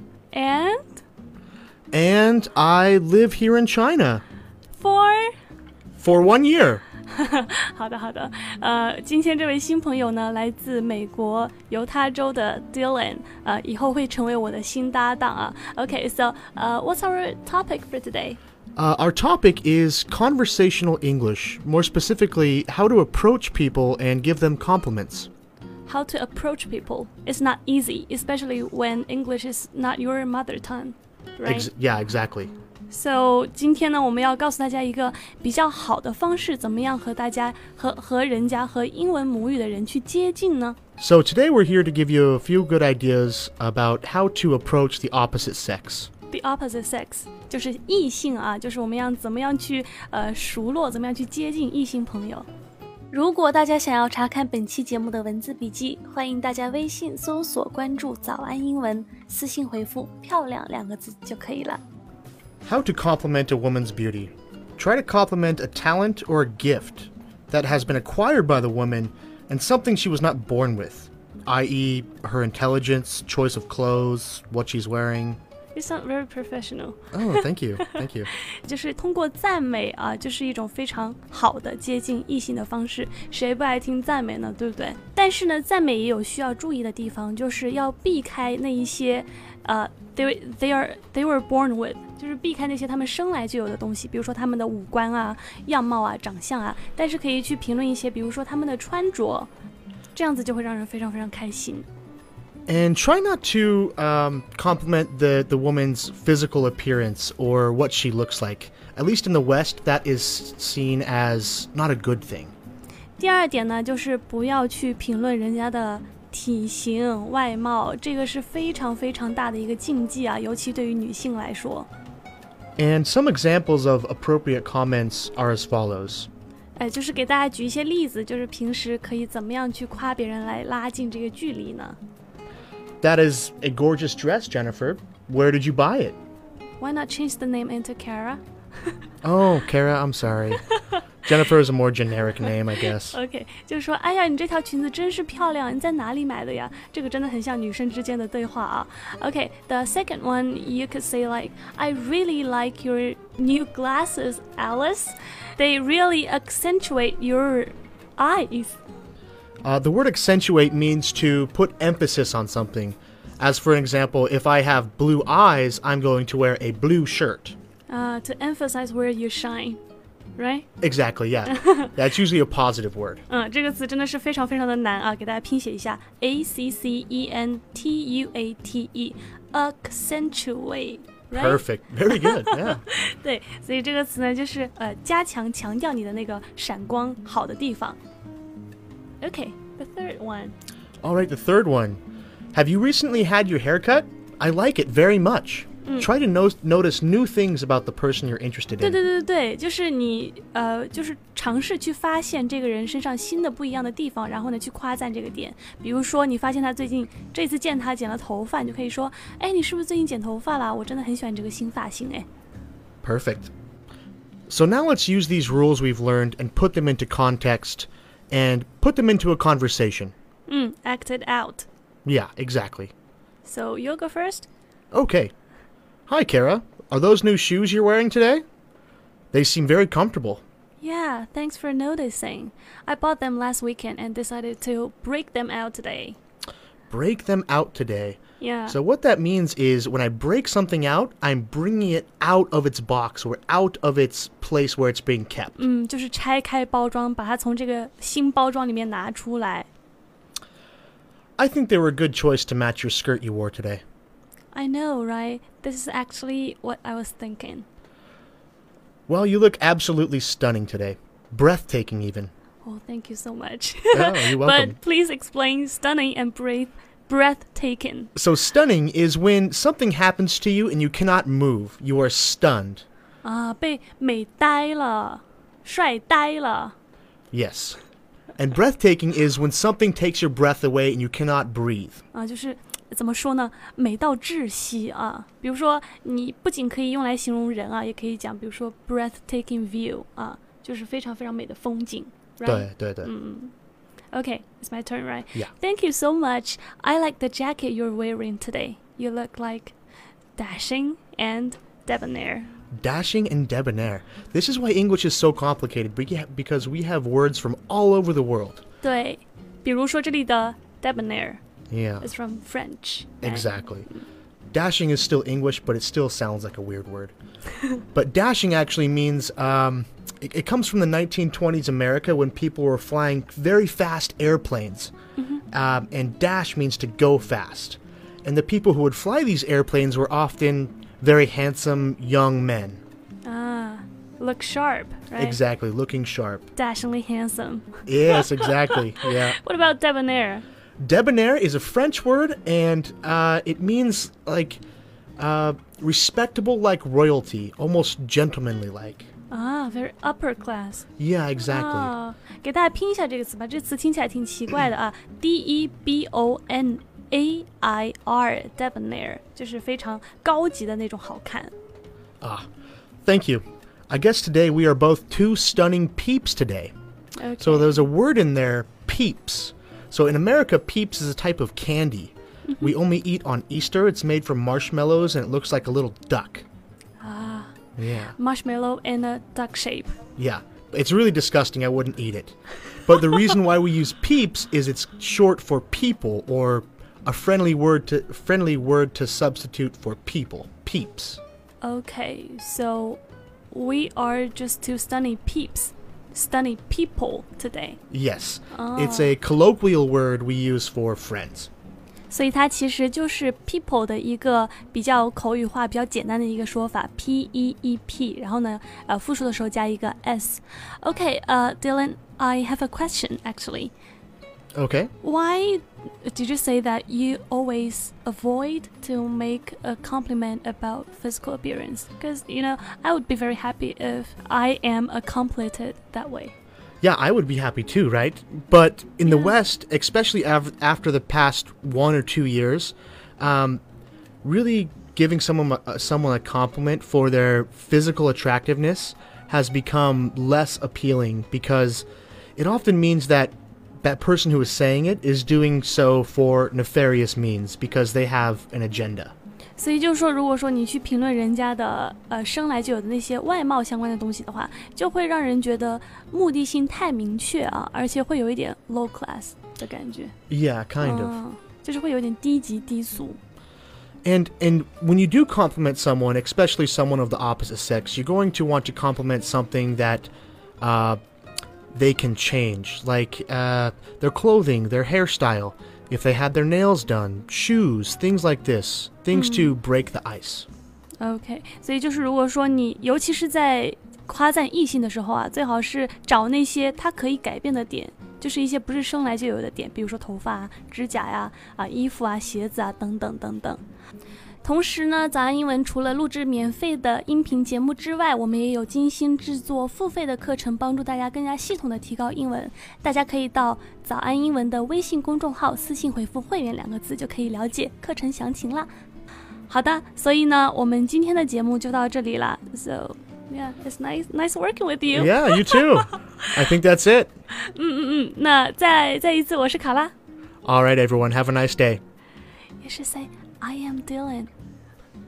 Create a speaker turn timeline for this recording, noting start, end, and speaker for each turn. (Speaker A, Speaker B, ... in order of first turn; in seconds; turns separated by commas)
Speaker A: 0.3-1.0, Speaker B: 1.9-4.2, Speaker A: 4.7-5.3, Speaker B: 6.0-6.8, Speaker A: 7.1-18.4, Speaker B: 18.8-25.3, Speaker A: 25.9-31.7, Speaker B: 31.4-32.5, Speaker A: 32.9-40.8, Speaker B: 41.0-46.1, Speaker A: 46.3-52.5, Speaker A: 53.1-61.8, Speaker B: 62.6-75.4, Speaker A: 75.7-99.5, Speaker B: 77.1-78.3, Speaker A: 100.1-101.9, Speaker B: 102.7-112.5, Speaker A: 113.2-121.9, Speaker B: 122.8-126.3, Speaker A: 126.8-132.0, Speaker B: 133.0-136.2, Speaker A: 136.8-138.9, Speaker B: 139.2-140.6, Speaker A: 140.6-141.0, Speaker B: 141.2-143.2, Speaker A: 142.9-158.8, Speaker B: 159.6-167.6, Speaker A: 167.9-169.8, Speaker A: 170.4-170.7, Speaker B: 170.8-173.2, Speaker A: 171.5-171.9, Speaker A: 173.3-188.0, Speaker B: 181.3-182.8, Speaker A: 189.2-190.5, Speaker B: 191.0-192.0, Speaker B: 192.5-199.0, Speaker A: 195.8-196.1, Speaker A: 198.8-212.2, Speaker B: 213.0-213.5, Speaker B: 214.5-220.1, Speaker A: 220.5-221.7, Speaker B: 222.0-222.9, Speaker A: 223.4-224.5, Speaker B: 224.9-225.3, Speaker B: 226.1-228.4, Speaker B: 229.3-230.4, Speaker A: 230.8-236.2, Speaker B: 236.9-245.6, Speaker A: 238.4-238.8, Speaker A: 245.6-249.7, Speaker B: 251.4-253.8, Speaker A: 254.5-257.6, Speaker B: 259.1-262.3, Speaker A: 262.6-268.1, Speaker B: 263.9-264.8, Speaker B: 268.1-272.8, Speaker A: 273.2-276.7, Speaker B: 277.3-277.8, Speaker B: 278.4-282.0, Speaker A: 282.1-293.5, Speaker B: 292.4-293.1, Speaker A: 294.1-299.7, Speaker A: 300.4-302.5, Speaker B: 302.7-308.6, Speaker A: 308.8-311.4, Speaker B: 311.7-312.1, Speaker A: 312.0-313.5, Speaker B: 313.2-313.9, Speaker B: 314.5-317.1, Speaker B: 317.9-324.9, Speaker A: 325.2-325.4, Speaker B: 325.5-332.8, Speaker A: 333.2-335.4, Speaker B: 335.1-336.4, Speaker A: 336.6-340.4, Speaker B: 337.9-339.4, Speaker B: 340.8-344.6, Speaker B: 345.2-349.1, Speaker A: 349.3-350.8, Speaker B: 351.0-351.9, Speaker A: 351.5-361.5, Speaker B: 362.2-362.4, Speaker B: 363.0-366.7, Speaker A: 367.2-367.8, Speaker B: 367.4-376.4, Speaker A: 377.0-377.5, Speaker B: 377.8-378.1, Speaker A: 378.1-379.9, Speaker B: 380.2-391.2, Speaker A: 391.6-397.8, Speaker B: 397.9-401.5, Speaker A: 398.5-399.1, Speaker A: 402.1-413.7, Speaker B: 414.5-414.9, Speaker A: 415.0-426.3, Speaker B: 426.8-433.6, Speaker A: 429.1-429.3, Speaker B: 434.2-441.9, Speaker B: 442.4-449.1, Speaker A: 449.6-460.1, Speaker B: 460.3-461.2, Speaker A: 460.8-463.2, Speaker B: 464.0-471.0, Speaker B: 471.7-480.5, Speaker A: 479.1-479.6, Speaker A: 481.0-493.6, Speaker A: 494.4-508.7, Speaker A: 509.5-516.3, Speaker B: 514.9-517.1, Speaker A: 517.3-519.9, Speaker B: 520.4-521.8, Speaker A: 522.6-524.3